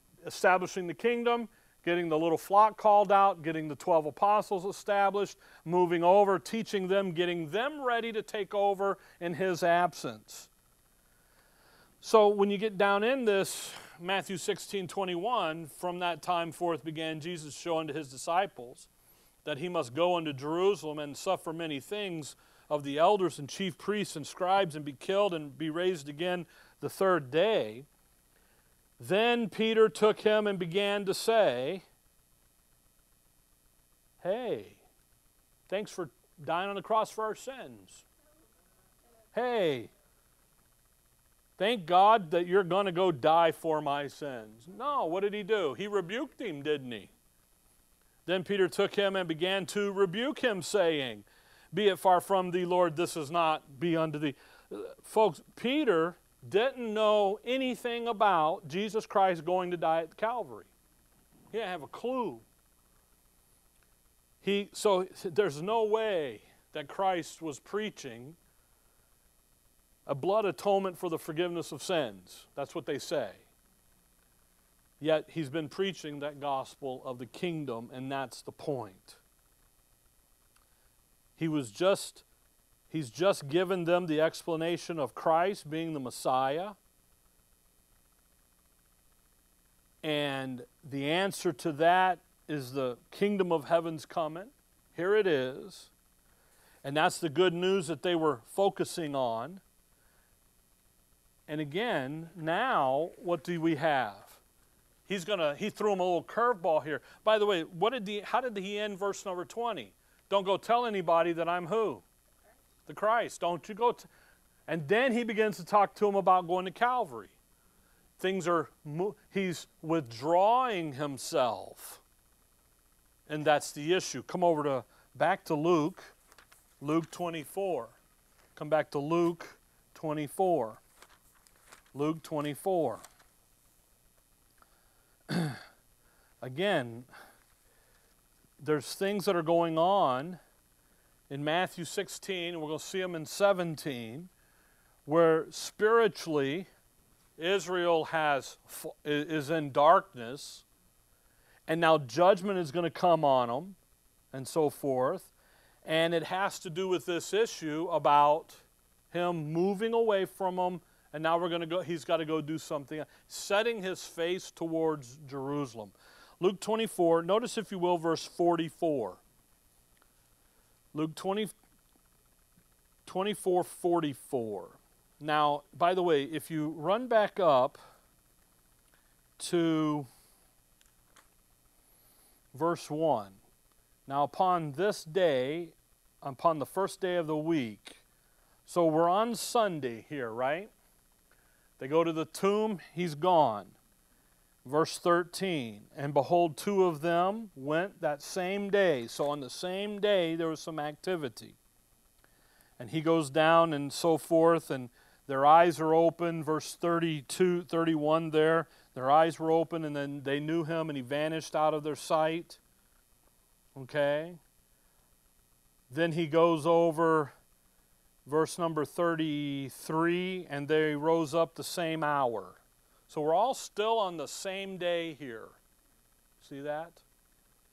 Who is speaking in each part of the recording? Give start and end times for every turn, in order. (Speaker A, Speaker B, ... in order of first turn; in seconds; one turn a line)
Speaker A: 0.2-10.5
Speaker A: 12.0-18.9
Speaker A: 19.4-27.9
Speaker A: 29.0-31.8
Speaker A: 34.2-34.8
Speaker A: 35.7-38.0
Speaker A: 39.3-39.9
Speaker A: 41.6-47.1
Speaker A: 48.2-60.7
Speaker A: 61.5-62.5
Speaker A: 64.4-68.4
Speaker A: 70.0-73.4
Speaker A: 75.0-79.2
Speaker A: 81.4-82.2
Speaker A: 82.9-86.8
Speaker A: 90.0-95.9
Speaker A: 96.8-99.6
Speaker A: 101.5-104.4
Speaker A: 105.1-112.0
Speaker A: 112.8-114.1
Speaker A: 114.7-117.3
Speaker A: 118.2-122.0
Speaker A: 123.3-126.1
Speaker A: 126.8-128.0
Speaker A: 128.5-130.8
Speaker A: 131.9-133.0
Speaker A: 135.3-135.6
Speaker A: 136.4-137.1
Speaker A: 138.6-140.4
Speaker A: 141.3-144.3
Speaker A: 145.1-146.7
Speaker A: 147.4-150.6
Speaker A: 151.7-153.8
Speaker A: 154.3-155.3
Speaker A: 155.8-169.2
Speaker A: 170.9-171.5
Speaker A: 173.1-177.8
Speaker A: 179.4-180.1
Speaker A: 182.5-183.4
Speaker A: 184.1-188.0
Speaker A: 188.7-190.7
Speaker A: 191.8-193.8
Speaker A: 194.6-201.6
Speaker A: 202.8-212.6
Speaker A: 213.8-214.4
Speaker A: 215.9-217.3
Speaker A: 218.2-225.6
Speaker A: 226.4-227.0